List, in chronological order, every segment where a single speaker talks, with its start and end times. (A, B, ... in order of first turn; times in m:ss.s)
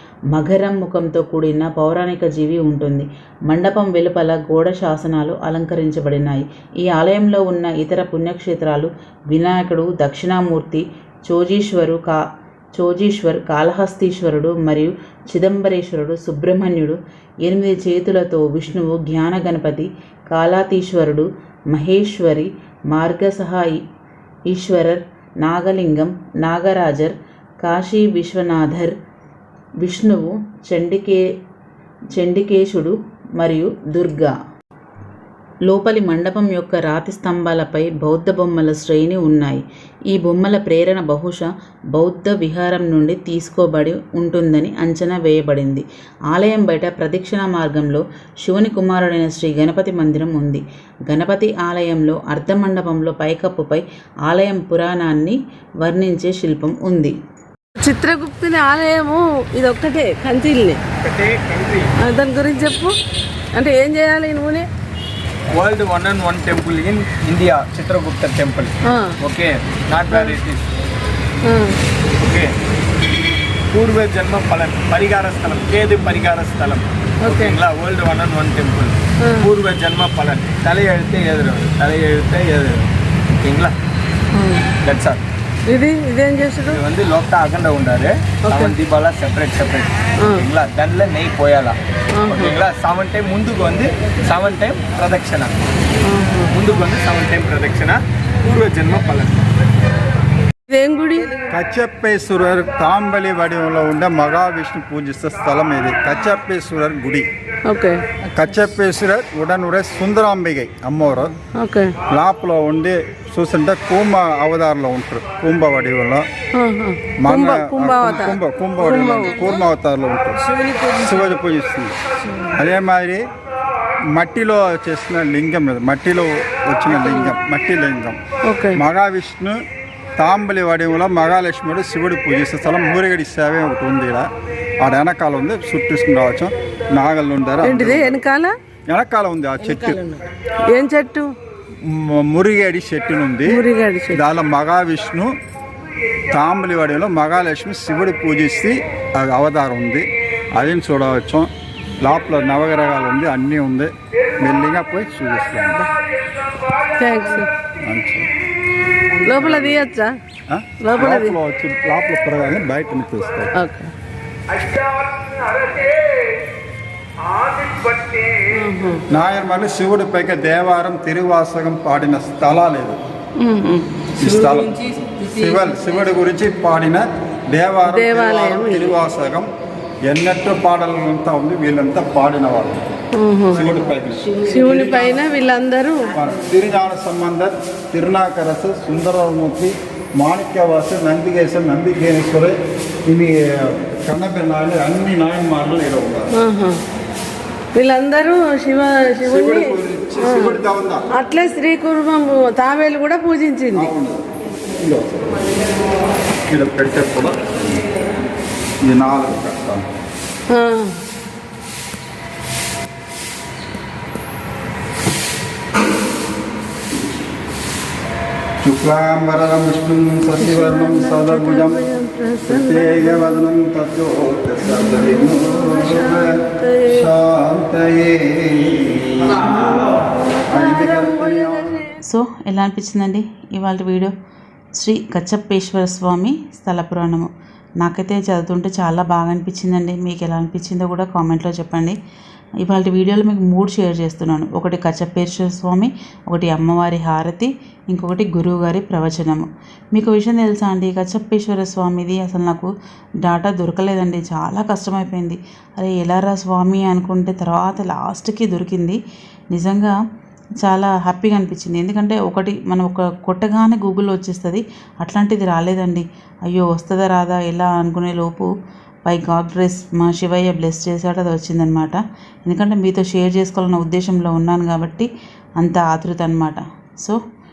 0:00.3-0:12.2 A
0:12.8-0:23.8 A
0:24.5-0:28.9 A
0:29.8-0:31.2 A
0:32.1-0:34.3 A
0:35.7-0:57.1 A
0:57.8-1:00.8 B
1:01.0-1:01.9 C
1:02.0-1:02.9 B
1:03.5-1:04.7 B
1:05.5-1:10.6 C
1:08.9-1:09.1 B
1:10.1-1:10.4 B
1:11.4-1:11.8 B
1:12.2-1:12.5 C
1:13.7-1:22.8 C
1:17.2-1:17.6 B
1:19.2-1:19.5 B
1:23.4-1:23.7 C
1:24.3-1:24.8 B
1:24.8-1:25.2 C
1:25.7-1:26.8 B
1:26.7-1:31.8 C
1:28.4-1:28.7 B
1:30.2-1:30.4 B
1:32.1-1:32.5 B
1:32.3-1:35.5 C
1:36.0-1:36.5 B
1:36.5-1:39.3 C
1:40.7-1:41.5 B
1:41.5-1:47.3 D
1:47.6-1:48.0 B
1:48.3-1:51.3 D
1:51.5-1:52.0 B
1:52.1-1:56.2 D
1:56.5-1:59.5 B
1:57.2-2:00.4 D
2:00.6-2:00.9 B
2:00.9-2:02.0 D
2:02.2-2:02.6 B
2:02.6-2:03.2 D
2:04.1-2:08.2 D
2:07.0-2:07.3 B
2:08.4-2:08.8 B
2:08.7-2:09.6 D
2:10.2-2:14.3 D
2:14.8-2:18.2 D
2:17.6-2:18.5 B
2:18.9-2:20.0 D
2:19.6-2:21.3 B
2:21.8-2:25.3 D
2:23.5-2:24.2 B
2:26.3-2:35.9 D
2:36.9-2:37.5 B
2:37.8-2:38.3 D
2:39.2-2:40.2 B
2:39.2-2:39.8 D
2:40.5-2:43.5 D
2:40.8-2:41.4 B
2:43.5-2:43.9 B
2:48.5-2:49.0 B
2:49.1-2:53.0 D
2:53.4-2:55.1 B
2:54.2-2:59.5 D
2:57.9-2:59.0 B
3:00.0-3:03.0 D
3:03.2-3:03.8 B
3:03.5-3:05.1 D
3:04.3-3:06.2 B
3:06.1-3:16.3 D
3:16.3-3:16.8 B
3:17.7-3:20.6 B
3:19.2-3:21.0 D
3:21.1-3:23.9 B
3:23.7-3:24.2 D
3:24.8-3:25.2 D
3:26.5-3:27.9 D
3:28.8-3:29.9 D
3:30.5-3:31.0 B
3:38.6-3:41.8 D
3:40.4-3:43.4 B
3:42.4-3:51.8 D
3:44.8-3:47.1 B
3:49.4-3:51.9 B
3:52.0-3:54.1 A
3:54.8-4:02.0 A
4:02.6-4:12.7 A
4:13.2-4:19.0 A
4:19.5-4:20.0 A
4:20.6-4:28.5 A
4:29.0-4:37.2 A